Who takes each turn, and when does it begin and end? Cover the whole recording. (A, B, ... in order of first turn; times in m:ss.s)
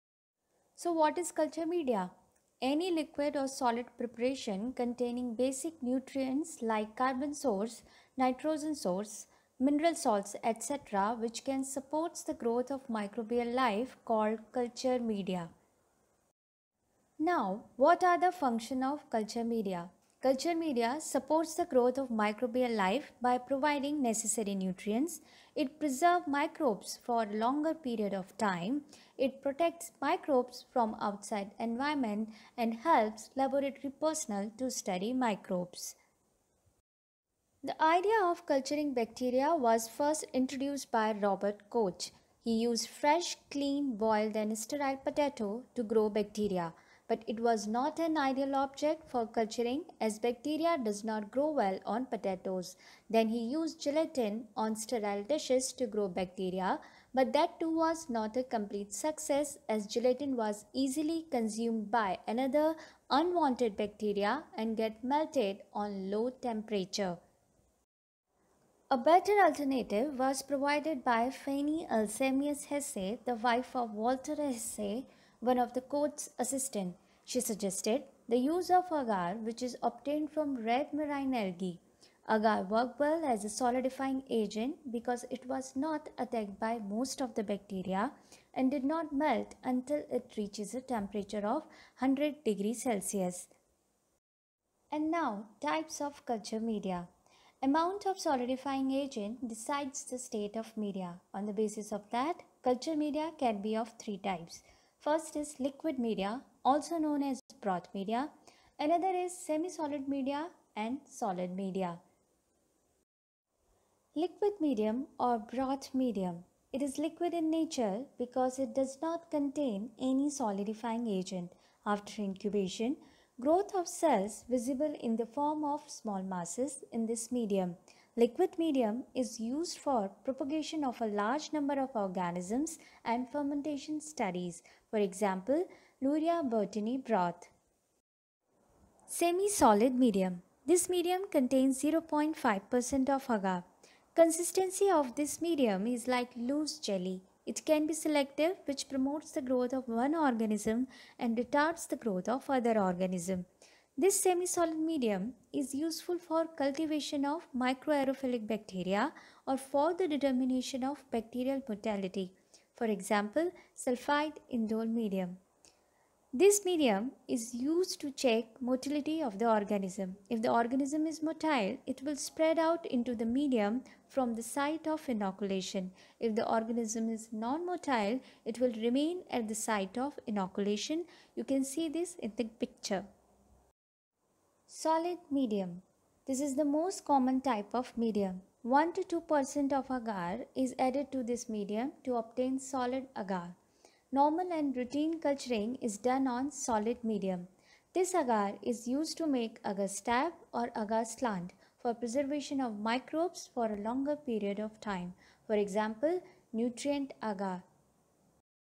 0:00.8-0:15.5 A
0:17.2-0:36.0 A
0:37.6-1:07.2 A
1:08.9-1:33.5 A
1:34.9-1:37.1 A
1:37.6-1:52.0 A
1:54.2-2:17.5 A
2:19.1-2:33.5 A
2:34.0-2:45.4 A
2:46.3-3:03.1 A
3:04.7-3:13.6 A
3:14.1-3:27.6 A